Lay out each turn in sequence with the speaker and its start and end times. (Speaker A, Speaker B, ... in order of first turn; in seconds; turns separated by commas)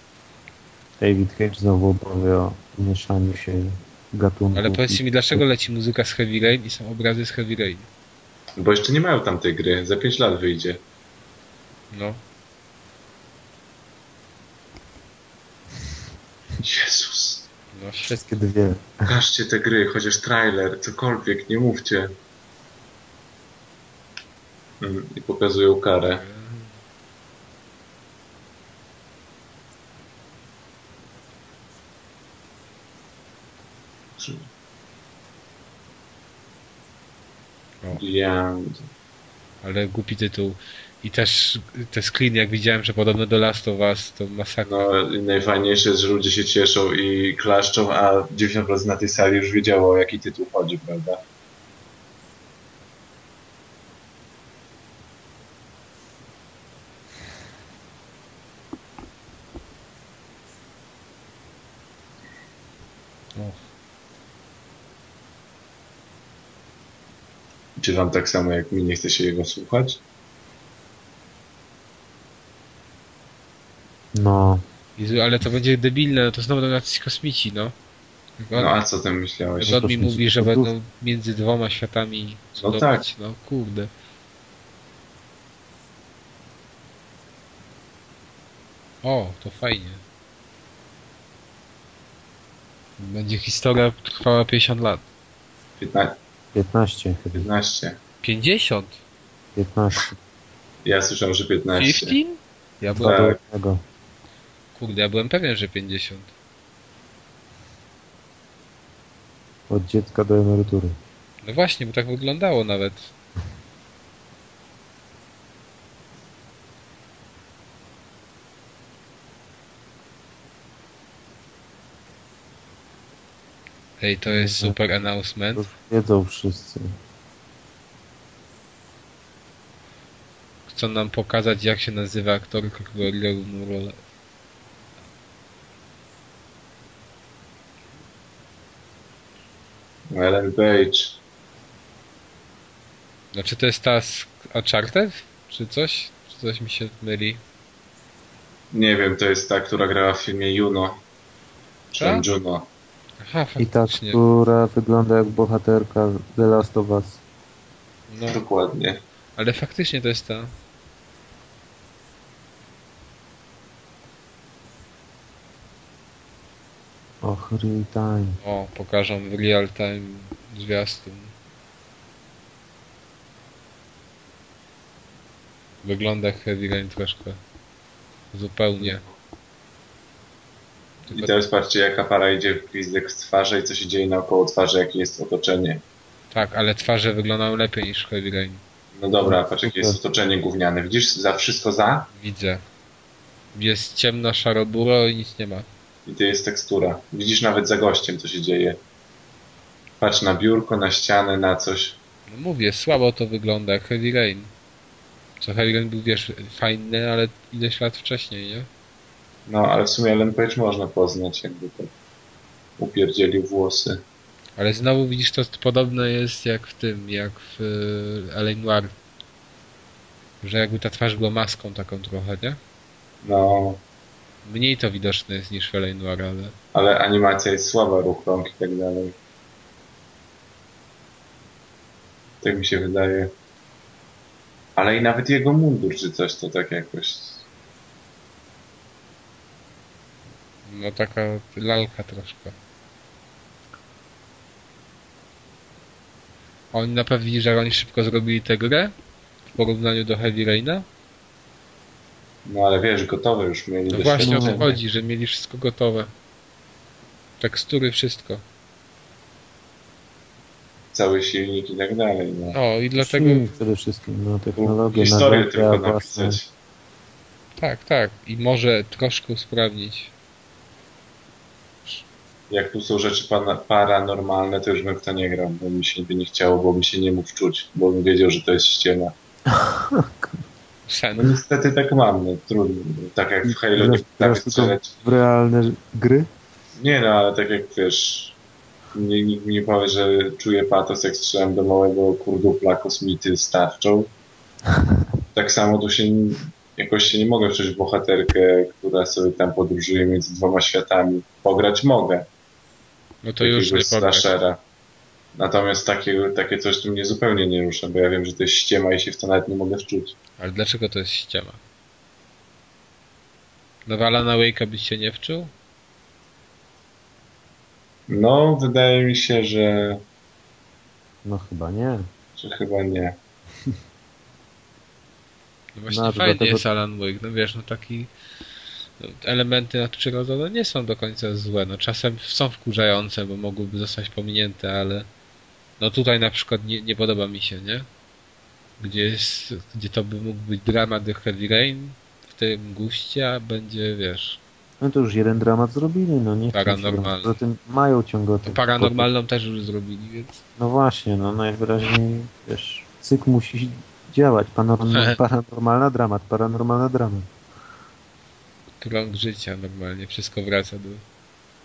Speaker A: 1.0-5.4, Speaker B: 4.5-7.9, Speaker C: 8.6-10.8, Speaker B: 11.9-12.2, Speaker C: 16.6-17.5, Speaker B: 17.7-18.2, Speaker A: 18.0-19.1, Speaker C: 19.1-22.1, Speaker C: 24.8-26.2, Speaker B: 26.1-26.7, Speaker C: 34.2-34.4, Speaker C: 37.9-38.9, Speaker B: 39.6-44.7, Speaker C: 44.6-51.2, Speaker C: 67.8-70.0, Speaker A: 74.1-74.6, Speaker B: 75.0-77.8, Speaker B: 78.4-78.8, Speaker C: 78.5-79.8, Speaker A: 79.6-80.7, Speaker B: 79.6-83.9, Speaker C: 82.6-83.0, Speaker B: 89.0-90.0, Speaker B: 93.0-95.0, Speaker C: 95.8-96.2, Speaker A: 96.5-97.5, Speaker C: 97.3-98.0, Speaker B: 98.2-99.0, Speaker A: 99.5-100.2, Speaker C: 100.8-102.2, Speaker B: 101.8-103.1, Speaker A: 103.0-103.8, Speaker C: 103.0-103.4, Speaker B: 104.8-106.3, Speaker A: 109.7-111.0, Speaker B: 111.4-113.1, Speaker B: 124.0-125.7, Speaker A: 124.3-124.8, Speaker A: 125.5-126.9, Speaker B: 130.7-134.0, Speaker C: 140.1-141.2, Speaker B: 143.3-147.4, Speaker C: 148.7-151.0, Speaker C: 151.9-152.7, Speaker B: 152.0-152.2, Speaker B: 153.2-154.2, Speaker A: 153.6-157.2, Speaker B: 158.1-158.4, Speaker C: 158.2-159.0, Speaker B: 159.4-160.5, Speaker A: 167.2-168.4, Speaker B: 168.4-171.3, Speaker B: 175.8-177.4, Speaker B: 178.3-179.0, Speaker B: 181.1-181.3, Speaker C: 181.1-185.8, Speaker B: 186.3-188.6, Speaker C: 188.9-192.1, Speaker A: 189.2-190.0, Speaker B: 192.1-192.6, Speaker B: 193.5-195.7, Speaker C: 196.1-198.8, Speaker C: 200.0-202.0, Speaker B: 202.3-204.5, Speaker B: 205.4-208.7, Speaker C: 209.5-211.9, Speaker C: 212.8-214.0, Speaker B: 214.6-218.9, Speaker B: 220.4-222.6, Speaker C: 223.2-223.8, Speaker B: 224.4-226.5, Speaker C: 226.7-229.1, Speaker C: 232.4-233.3, Speaker C: 234.8-237.4, Speaker B: 240.7-242.5, Speaker B: 246.7-248.9, Speaker B: 249.5-250.9, Speaker C: 252.4-254.7, Speaker B: 253.9-256.1, Speaker A: 254.1-254.8, Speaker B: 257.4-258.4, Speaker C: 260.9-262.6, Speaker B: 262.5-263.5, Speaker A: 263.0-266.4, Speaker C: 264.6-266.5, Speaker B: 267.6-270.1, Speaker C: 272.5-279.1, Speaker A: 279.5-280.4, Speaker B: 280.9-281.4, Speaker C: 281.1-284.9, Speaker A: 283.4-286.3, Speaker C: 286.8-288.4, Speaker C: 288.9-294.1, Speaker C: 295.3-302.3, Speaker B: 303.2-304.2, Speaker C: 303.4-304.6, Speaker C: 305.4-310.2, Speaker B: 310.4-311.6, Speaker B: 313.9-315.5, Speaker C: 318.1-320.0, Speaker A: 321.2-322.1, Speaker C: 322.4-323.2, Speaker B: 325.8-328.1, Speaker A: 325.9-326.6, Speaker B: 329.0-335.1, Speaker B: 335.8-337.9, Speaker B: 338.8-344.4, Speaker A: 344.8-349.1, Speaker B: 346.5-347.4, Speaker B: 348.4-350.4, Speaker A: 350.6-357.3, Speaker B: 354.9-355.2, Speaker B: 358.8-361.0